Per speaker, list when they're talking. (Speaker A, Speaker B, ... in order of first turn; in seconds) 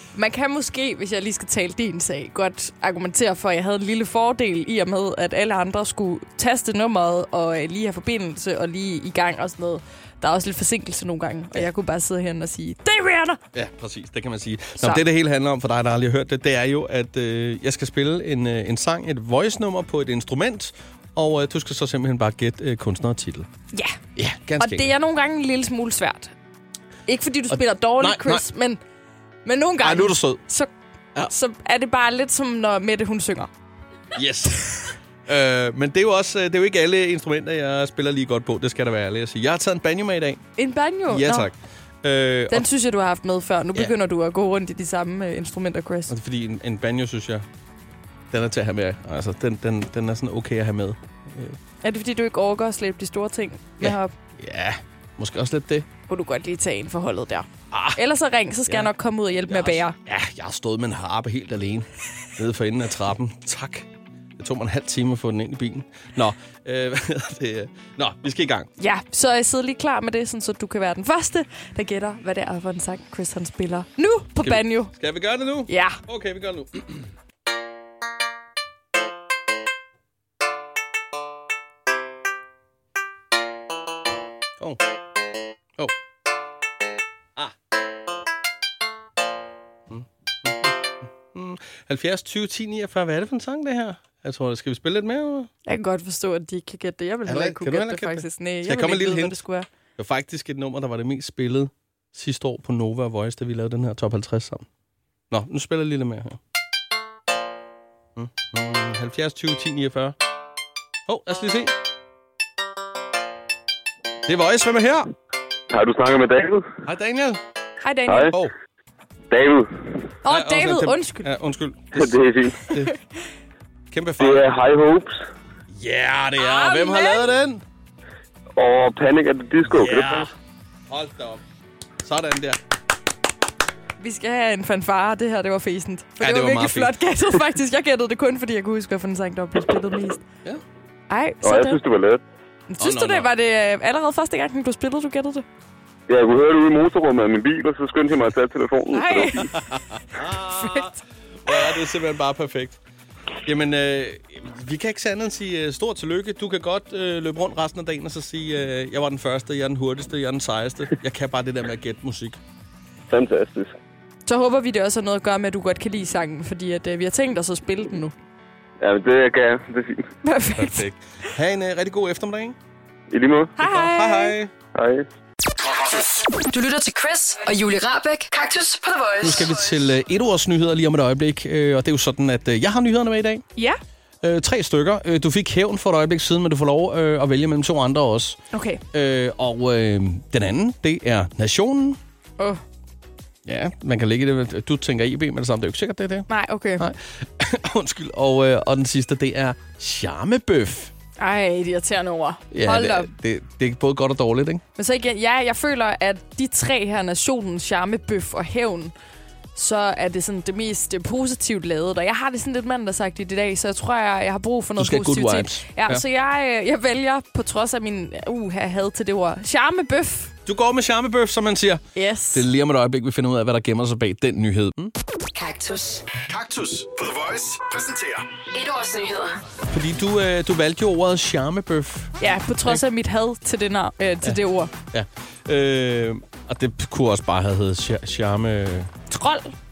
Speaker A: 0.1-13.4, 14.8-15.0, 23.7-24.0, 24.6-26.3, 27.1-28.8, 29.4-30.7, 31.2-33.5, 40.6-41.5, 42.5-46.1, 51.8-54.1, 56.1-60.0, 68.8-74.9, 75.7-76.0, 95.7-99.7, 117.8-118.3, 120.2-121.3, 126.4-127.3, 134.0-140.2, 141.1-141.8, 142.7-145.4, 148.9-149.5, 150.6-150.9, 164.3-168.1, 170.2-170.8, 173.6-174.3, 188.5-188.8, 196.3-196.8, 201.2-203.1, 204.8-208.9, 209.6-220.3, 221.9-222.4, 232.2-234.7, 239.1-239.5
Speaker B: 13.5-23.5, 24.1-24.9, 27.5-28.4, 29.8-30.4, 34.1-40.4, 41.1-42.7, 46.1-47.4, 48.3-51.6, 53.8-55.9, 57.7-58.0, 59.5-63.9, 64.4-68.7, 74.4-77.1, 89.9-90.8, 91.3-95.5, 97.3-99.3, 100.0-104.6, 105.3-106.4, 108.2-110.2, 111.1-111.7, 114.2-115.1, 116.8-117.4, 120.3-122.9, 123.9-124.5, 125.7-127.6, 129.7-130.3, 130.9-131.4, 132.0-132.6, 136.2-136.9, 142.8-143.3, 149.4-150.9, 151.4-152.8, 153.4-162.4, 170.6-172.6, 173.6-174.5, 179.2-183.4, 184.2-188.4, 188.9-192.0, 193.4-196.3, 196.8-200.9, 202.5-204.6, 214.8-216.0, 220.4-224.9, 229.7-232.1, 234.9-238.9
Speaker C: 115.7-116.7, 119.3-120.1, 121.9-122.6, 124.2-125.2, 128.6-130.3, 141.4-142.2, 146.1-149.4, 163.1-163.7, 168.8-170.1, 173.1-173.5, 174.7-175.1
Speaker D: 175.8-179.7, 225.3-226.0, 228.5-229.3
Speaker E: 226.2-228.3